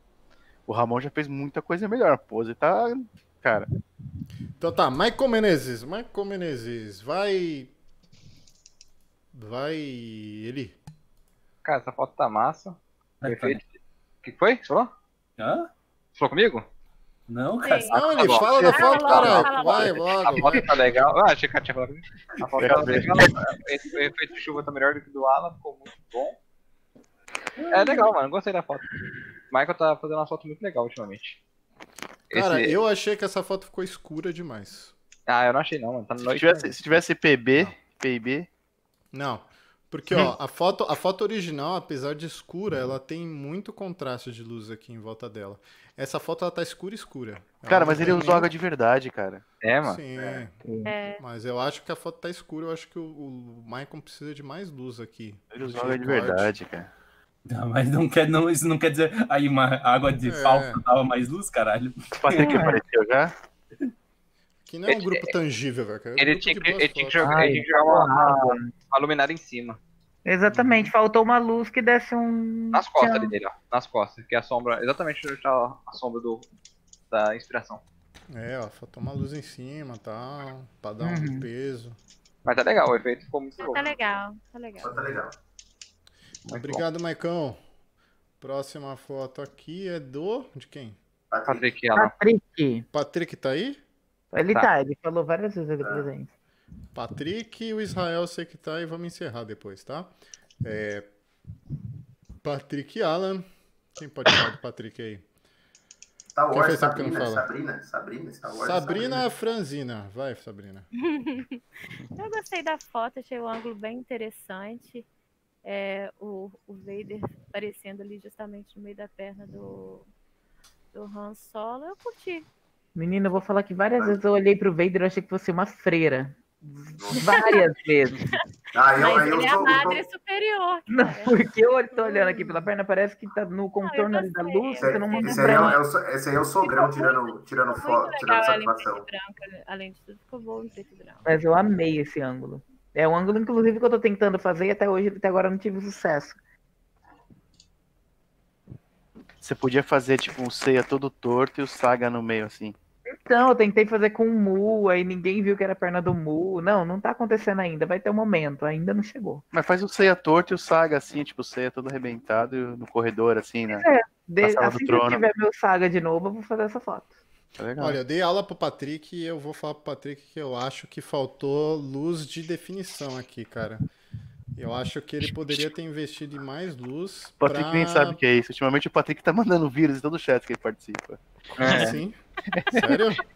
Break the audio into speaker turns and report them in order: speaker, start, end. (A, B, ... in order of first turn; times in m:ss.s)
0:00.7-0:03.7 A
0:04.6-0:07.7 B
0:09.3-0:10.8 B
0:11.6-0:13.6 C
0:13.2-0:13.6 D
0:14.2-0:14.9 C
0:15.4-0:15.7 D
0:16.2-0:16.6 C
0:17.3-0:18.4 D
0:17.6-0:20.5 E
0:17.9-0:20.7 B
0:17.9-0:26.4 C
0:22.6-0:23.4 A
0:27.7-0:28.8 C
0:27.7-0:28.1 E
0:29.5-0:31.4 C
0:32.3-0:32.8 C
0:32.3-0:34.9 B
0:35.3-0:36.7 C
0:36.2-0:38.5 A
0:39.1-0:48.5 B
0:47.7-0:49.4 A
0:49.6-0:50.4 C
0:49.8-0:50.5 B
0:50.6-0:50.9 F
0:50.8-0:51.2 E
0:51.2-0:56.5 B
0:55.5-0:56.9 A
0:57.5-1:02.7 D
1:00.2-1:00.8 B
1:02.2-1:03.3 A
1:02.4-1:02.8 F
1:04.6-1:07.2 B
1:04.9-1:05.3 C
1:06.2-1:09.8 C
1:07.2-1:08.7 F
1:10.2-1:13.3 F
1:10.5-1:10.9 B
1:12.7-1:16.5 C
1:17.1-1:17.8 C
1:18.3-1:22.0 B
1:21.0-1:21.5 F
1:22.4-1:23.9 C
1:23.6-1:24.9 E
1:24.8-1:25.4 G
1:26.5-1:26.8 C
1:26.5-1:27.6 B
1:28.4-1:31.0 B
1:31.3-1:31.7 G
1:31.5-1:32.1 C
1:31.9-1:32.8 F
1:32.9-1:33.8 B
1:34.3-1:36.3 F
1:35.8-1:36.1 G
1:36.9-1:41.1 B
1:42.4-1:43.4 B
1:44.0-1:45.2 B
1:46.3-1:49.3 G
1:46.5-1:47.4 B
1:48.5-1:50.9 B
1:51.0-1:51.6 E
1:52.2-1:55.0 E
1:55.6-2:00.1 E
2:00.9-2:02.4 E
2:03.0-2:08.3 F
2:07.1-2:07.7 E
2:08.7-2:10.0 G
2:08.9-2:11.4 E
2:10.9-2:15.8 F
2:11.9-2:12.6 E
2:13.8-2:15.8 E
2:14.8-2:19.0 G
2:16.6-2:21.2 E
2:21.2-2:26.4 F
2:29.4-2:32.7 A
2:33.2-2:39.4 F
2:39.5-2:43.8 A
2:43.7-2:47.1 F
2:44.4-2:45.2 A
2:47.6-2:48.0 A
2:47.8-2:53.8 B
2:54.6-2:58.2 B
2:57.4-3:01.8 A
3:01.6-3:02.0 C
3:01.7-3:02.2 B
3:02.5-3:02.8 A
3:02.7-3:03.2 B